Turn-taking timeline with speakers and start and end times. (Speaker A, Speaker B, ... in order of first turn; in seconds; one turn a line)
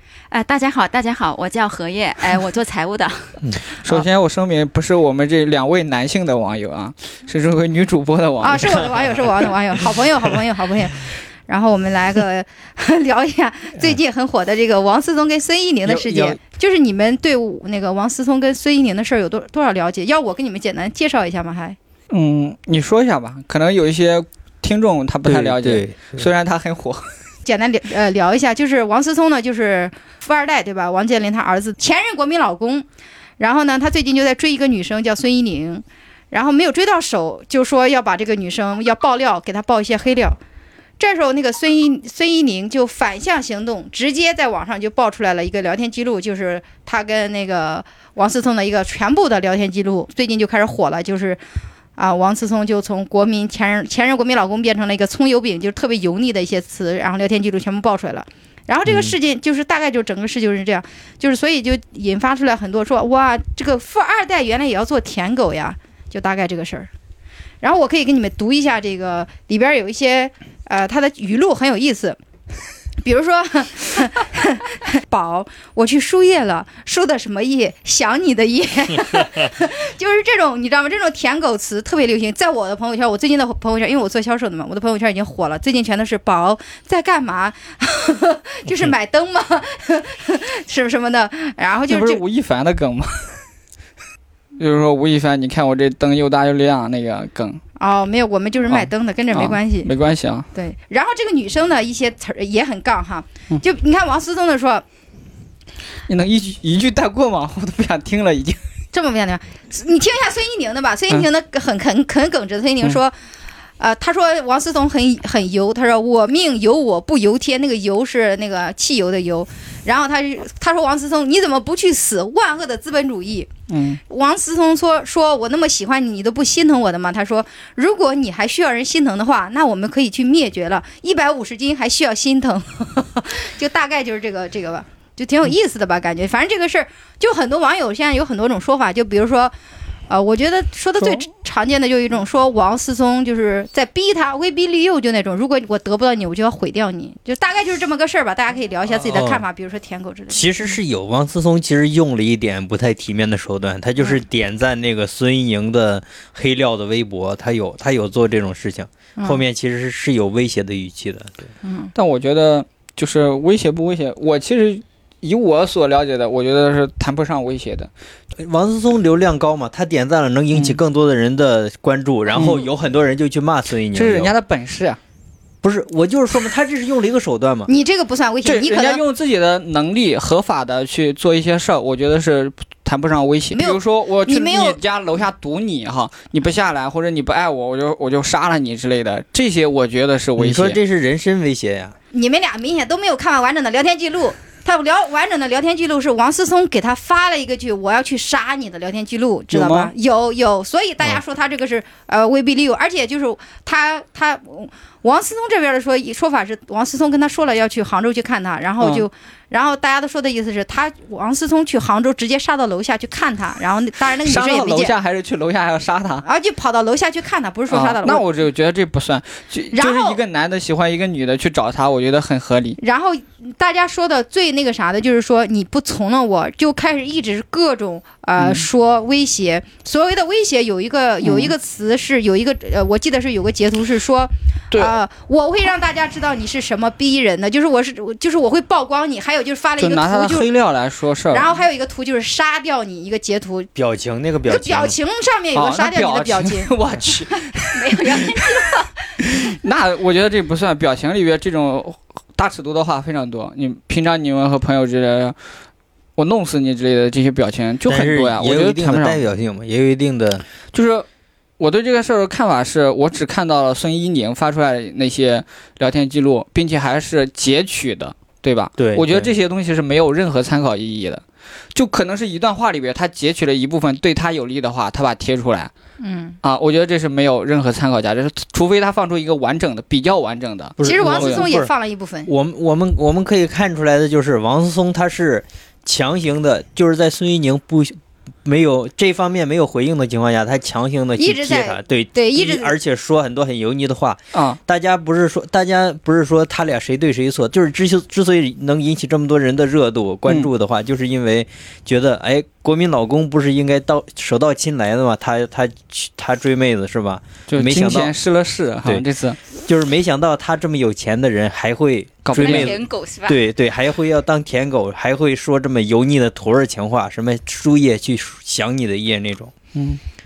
Speaker A: 0.3-3.4
Speaker B: 3.8-8.8
Speaker C: 8.4-21.8
Speaker D: 15.8-16.4
Speaker B: 22.1-27.1
Speaker D: 25.2-26.2
Speaker C: 27.4-32.9
Speaker C: 33.4-40.4
Speaker C: 41.0-51.4
Speaker C: 52.0-66.9
Speaker D: 58.9-59.1
Speaker C: 67.6-72.2
Speaker C: 73.0-92.2
Speaker B: 91.9-93.4
Speaker B: 94.6-97.6
Speaker C: 97.8-99.9
Speaker B: 98.7-100.5
Speaker C: 100.5-104.8
Speaker B: 106.1-108.6
Speaker C: 108.9-113.2
Speaker C: 113.8-123.5
Speaker B: 123.7-124.0
Speaker C: 124.1-139.5
Speaker C: 140.1-150.4
Speaker D: 148.9-149.4
Speaker D: 150.3-161.4
Speaker C: 159.2-159.4
Speaker C: 161.6-161.9
Speaker B: 161.9-167.9
Speaker D: 168.4-174.3
Speaker B: 170.5-170.8
Speaker B: 172.3-172.7
Speaker B: 173.9-175.0
Speaker D: 175.6-177.7
Speaker C: 177.7-179.0
Speaker B: 178.4-190.8
Speaker C: 183.5-184.8
Speaker D: 190.4-191.9
Speaker C: 192.1-214.9
Speaker B: 199.5-199.9
Speaker B: 214.2-216.2
Speaker C: 216.2-218.2
Speaker B: 217.7-222.8
Speaker C: 219.7-220.2
Speaker C: 222.8-240.5
Speaker B: 228.4-228.6
Speaker B: 231.2-231.5
Speaker B: 234.7-235.0
Speaker B: 239.8-241.5
Speaker C: 241.3-243.7
Speaker D: 243.8-244.9
Speaker C: 244.4-246.7
Speaker B: 245.5-248.7
Speaker A: 247.7-248.9
Speaker B: 249.2-255.3
Speaker B: 256.1-259.2
Speaker D: 257.9-260.4
Speaker B: 260.7-261.1
Speaker B: 261.6-271.2
Speaker D: 268.8-269.3
Speaker B: 271.7-275.7
Speaker C: 276.0-276.4
Speaker B: 276.4-281.4
Speaker D: 280.8-281.7
Speaker C: 280.8-282.3
Speaker D: 282.2-308.1
Speaker C: 291.2-292.7
Speaker B: 294.3-294.6
Speaker B: 307.5-309.4
Speaker D: 309.6-319.5
Speaker B: 312.2-312.7
Speaker A: 312.3-313.4
Speaker B: 319.7-320.0